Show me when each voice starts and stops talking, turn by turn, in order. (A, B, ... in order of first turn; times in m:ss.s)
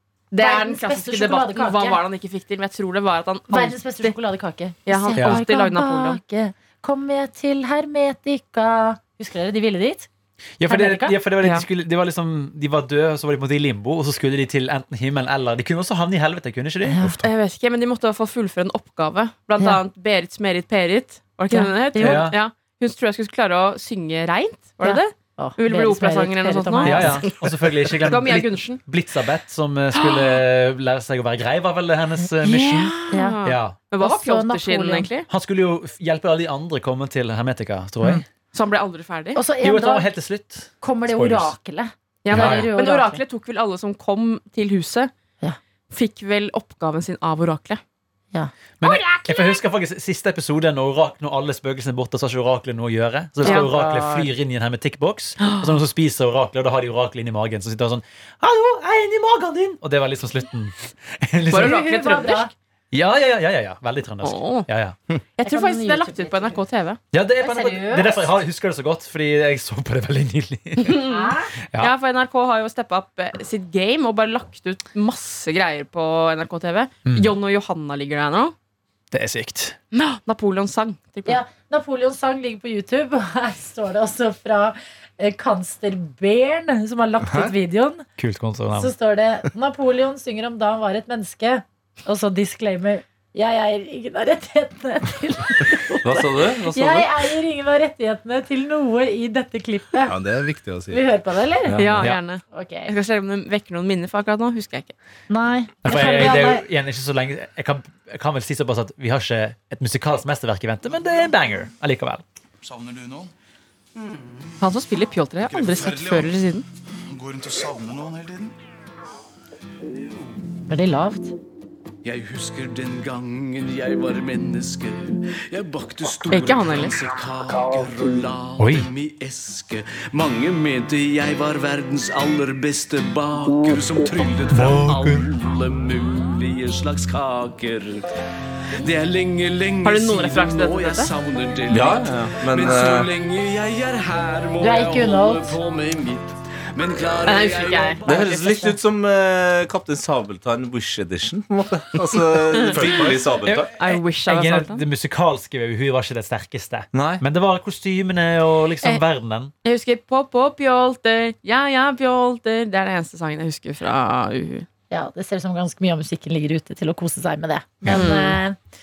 0:00.3-0:04.2 A
0:00.4-0:02.0 B
0:03.5-0:10.1 B
0:04.9-0:06.2 A
0:05.1-0:05.4 C
0:10.6-0:17.0 C
0:10.6-0:11.2 B
0:11.4-0:11.7 A
0:16.8-0:17.2 B
0:17.0-0:17.3 D
0:17.2-0:27.2 A
0:21.5-0:22.3 B
0:22.0-0:22.4 C
0:24.8-0:27.2 B
0:26.8-0:33.8 C
0:28.0-0:28.8 A
0:29.9-0:30.4 A
0:32.4-0:35.3 A
0:33.1-0:33.4 B
0:34.0-0:35.1 B
0:35.3-0:38.2 C
0:38.5-0:39.4 A
0:39.4-0:40.1 B
0:39.6-0:41.5 C
0:40.8-0:43.2 B
0:42.2-0:45.1 A
0:42.3-0:42.7 C
0:45.9-0:47.8 A
0:48.3-0:49.4 B
0:48.8-1:01.8 C
0:53.4-0:54.3 B
0:55.4-0:55.8 A
1:01.5-1:02.5 A
1:01.5-1:02.5 B
1:02.9-1:05.0 C
1:04.2-1:04.7 A
1:05.4-1:07.0 A
1:05.4-1:06.6 B
1:07.1-1:11.0 C
1:07.4-1:08.3 B
1:10.8-1:18.5 A
1:11.0-1:11.5 B
1:17.0-1:17.3 C
1:19.1-1:19.8 C
1:19.9-1:21.4 A
1:21.2-1:28.0 B
1:27.2-1:27.5 D
1:28.2-1:28.9 C
1:28.7-1:40.2 B
1:36.0-1:37.1 E
1:40.0-1:41.0 D
1:40.9-1:41.8 B
1:41.7-1:42.1 E
1:41.8-1:44.9 A
1:42.5-1:42.9 B
1:45.3-1:46.6 B
1:45.8-1:52.2 C
1:52.6-1:53.3 F
1:54.6-1:56.6 A
1:55.4-1:56.4 F
1:57.1-1:58.5 F
2:00.7-2:01.4 B
2:02.0-2:18.1 F
2:06.3-2:07.0 A
2:08.6-2:08.9 C
2:14.5-2:15.3 C
2:18.8-2:28.2 F
2:19.8-2:21.1 A
2:21.7-2:23.1 E
2:24.6-2:25.6 B
2:27.2-2:28.6 A
2:28.0-2:33.7 E
2:28.1-2:28.7 B
2:32.6-2:33.0 A
2:32.7-2:33.2 D
2:33.5-2:39.5 C
2:33.6-2:34.8 A
2:36.9-2:37.2 E
2:39.6-2:44.6 A
2:44.9-2:48.6 B
2:47.9-2:48.4 A